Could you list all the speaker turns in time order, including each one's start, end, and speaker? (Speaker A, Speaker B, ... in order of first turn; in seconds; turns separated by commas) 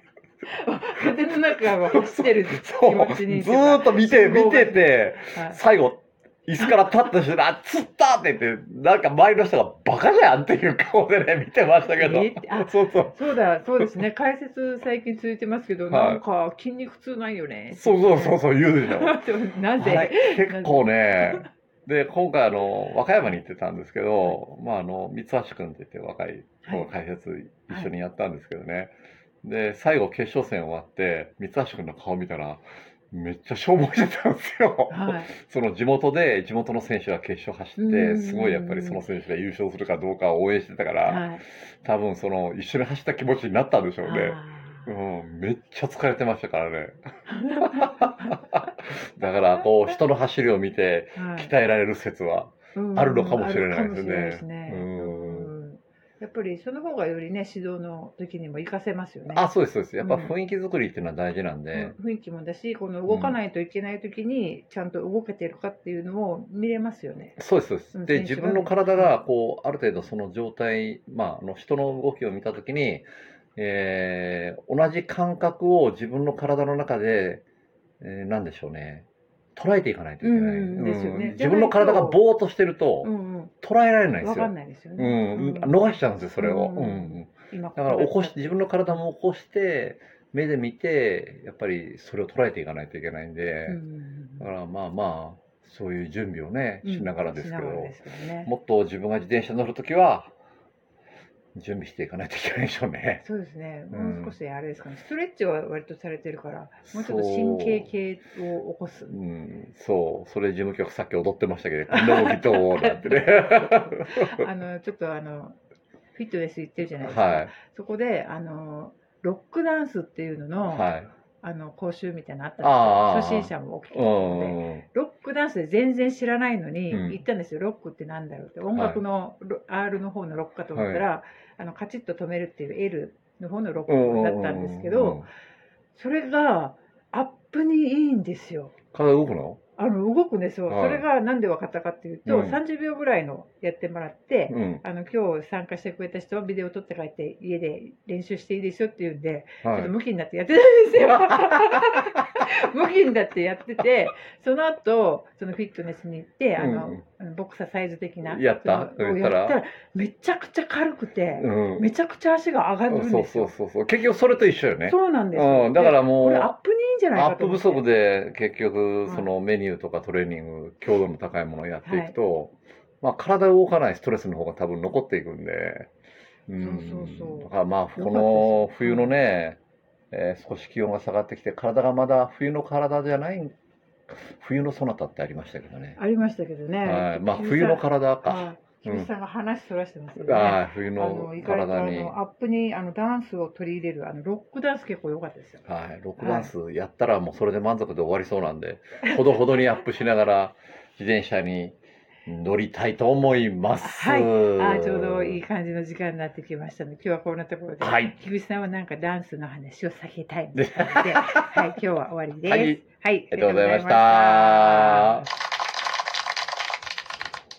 Speaker A: 0.5-5.6, Speaker B: 1.8-13.2, Speaker A: 11.9-21.5, Speaker B: 15.9-16.2, Speaker B: 17.7-19.2, Speaker B: 19.8-47.0, Speaker A: 26.6-26.9, Speaker A: 34.9-35.3, Speaker A: 37.8-39.0, Speaker A: 41.0-41.4, Speaker A: 44.0-44.9, Speaker A: 47.3-48.7, Speaker B: 47.6-48.1, Speaker B: 48.9-55.5, Speaker A: 51.1-51.5, Speaker A: 52.7-59.5, Speaker B: 59.3-61.9, Speaker A: 60.0-60.3, Speaker A: 61.7-67.4, Speaker B: 63.1-63.4, Speaker B: 67.4-77.4, Speaker A: 67.9-69.1, Speaker B: 78.0-83.1, Speaker A: 80.2-82.2, Speaker A: 83.0-83.5, Speaker B: 83.6-93.8, Speaker A: 84.2-88.5, Speaker A: 93.7-94.5, Speaker B: 94.4-100.3, Speaker A: 96.8-98.5, Speaker B: 101.5-103.2, Speaker A: 103.2-109.1, Speaker B: 103.9-104.3, Speaker B: 106.9-107.9, Speaker B: 109.1-114.3, Speaker A: 111.9-115.6, Speaker A: 116.1-120.9, Speaker B: 117.0-117.5, Speaker B: 120.7-121.1, Speaker A: 121.4-135.3, Speaker B: 122.6-124.8, Speaker B: 126.9-127.2, Speaker B: 128.7-129.0, Speaker B: 130.7-131.0, Speaker B: 133.9-135.3, Speaker A: 135.9-138.7, Speaker B: 138.9-139.6, Speaker A: 139.8-163.5, Speaker B: 140.7-141.0, Speaker B: 142.2-142.6, Speaker B: 144.5-144.8, Speaker B: 149.6-149.9, Speaker B: 156.6-157.0, Speaker B: 158.2-159.6, Speaker B: 161.4-161.8, Speaker B: 162.9-166.5, Speaker A: 164.8-167.8, Speaker B: 167.1-175.9, Speaker A: 171.8-172.1, Speaker B: 176.5-179.6, Speaker A: 176.6-179.2, Speaker B: 180.1-183.5, Speaker B: 184.1-186.0, Speaker A: 186.0-195.6, Speaker B: 186.8-189.1, Speaker B: 190.2-192.1, Speaker B: 195.6-205.4, Speaker A: 196.2-196.5, Speaker A: 203.8-215.2, Speaker B: 207.8-208.1, Speaker B: 210.6-211.8, Speaker B: 212.5-215.3